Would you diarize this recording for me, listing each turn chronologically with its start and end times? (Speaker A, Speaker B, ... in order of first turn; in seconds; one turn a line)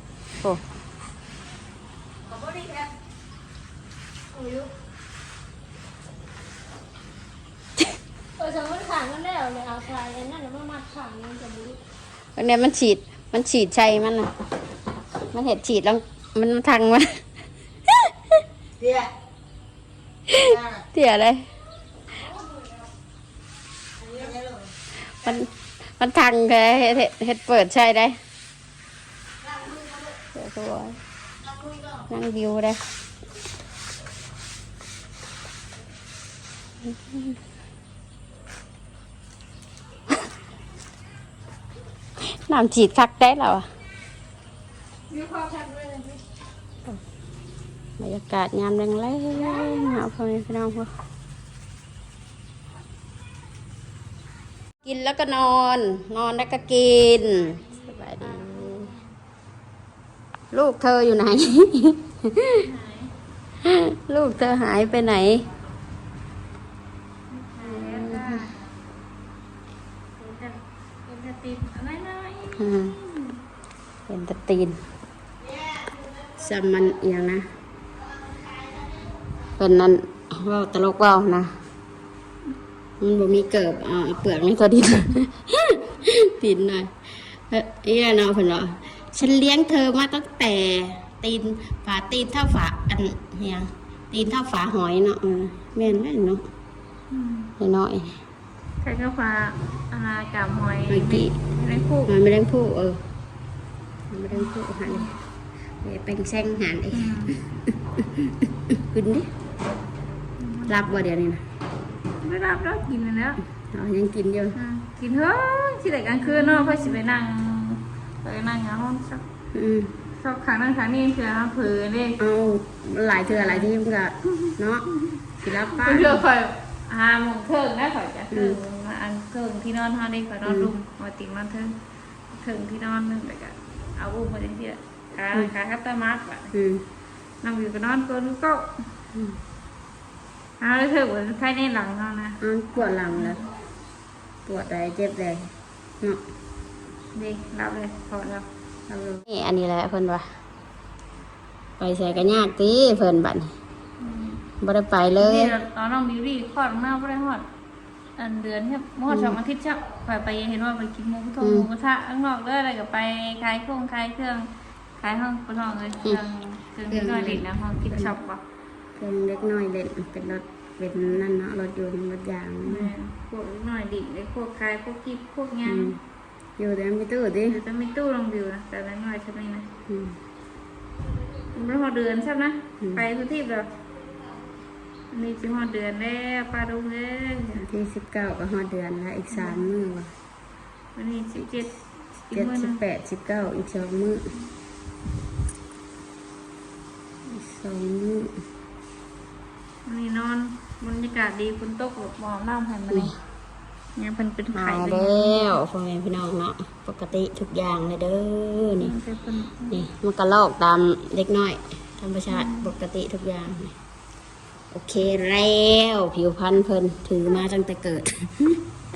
Speaker A: 2.2-2.9
Speaker A: 4.3-4.7
Speaker A: 8.4-11.7
Speaker B: 12.3-14.3
Speaker B: 15.3-17.2
Speaker B: 17.9-18.4
Speaker A: 18.8-19.1
Speaker B: 20.3-21.4
Speaker A: 20.4-20.8
Speaker A: 24.0-24.5
Speaker B: 25.2-25.5
Speaker B: 26.0-28.2
Speaker B: 30.3-31.0
Speaker B: 32.1-32.8
Speaker B: 36.8-37.4
Speaker B: 42.2-43.7
Speaker A: 45.1-46.2
Speaker B: 48.0-50.9
Speaker B: 54.8-58.9
Speaker C: 57.5-58.9
Speaker B: 60.5-62.6
Speaker C: 62.6-63.1
Speaker B: 63.6-65.4
Speaker C: 67.3-68.5
Speaker B: 67.6-68.4
Speaker C: 70.2-73.4
Speaker B: 72.6-72.9
Speaker B: 74.1-74.8
Speaker B: 76.4-77.4
Speaker B: 79.6-81.5
Speaker B: 83.0-96.4
Speaker C: 97.1-97.5
Speaker B: 97.6-98.2
Speaker C: 98.8-102.1
Speaker B: 100.9-101.3
Speaker B: 102.1-103.0
Speaker B: 104.1-105.1
Speaker B: 105.8-109.3
Speaker C: 106.9-107.4
Speaker C: 110.4-110.7
Speaker B: 110.7-111.4
Speaker C: 112.2-113.4
Speaker B: 113.7-114.6
Speaker C: 114.5-119.2
Speaker B: 116.2-116.9
Speaker B: 119.5-119.9
Speaker C: 120.2-122.2
Speaker B: 122.2-124.8
Speaker C: 123.4-123.7
Speaker B: 125.4-126.2
Speaker C: 125.7-131.8
Speaker B: 128.3-128.6
Speaker B: 130.4-130.7
Speaker C: 132.3-136.5
Speaker B: 136.5-136.8
Speaker C: 137.4-138.7
Speaker C: 140.6-143.5
Speaker B: 142.4-143.4
Speaker B: 144.4-145.5
Speaker C: 147.1-148.4
Speaker B: 148.9-150.3
Speaker B: 151.8-153.5
Speaker C: 154.0-154.4
Speaker B: 154.6-155.5
Speaker C: 155.2-157.4
Speaker C: 158.2-168.4
Speaker B: 159.1-159.4
Speaker B: 161.4-161.7
Speaker B: 166.9-168.1
Speaker B: 168.9-172.9
Speaker C: 172.6-176.0
Speaker B: 175.7-176.0
Speaker B: 176.6-177.6
Speaker C: 177.5-179.7
Speaker B: 179.9-180.2
Speaker C: 181.5-183.7
Speaker C: 185.1-187.6
Speaker B: 187.6-190.1
Speaker C: 189.3-189.6
Speaker C: 190.9-191.8
Speaker C: 192.3-192.8
Speaker B: 192.3-194.3
Speaker B: 197.3-198.4
Speaker C: 199.8-203.1
Speaker C: 203.9-205.6
Speaker B: 204.5-208.9
Speaker C: 208.8-209.8
Speaker B: 209.7-213.7
Speaker C: 212.3-212.7
Speaker B: 214.7-218.6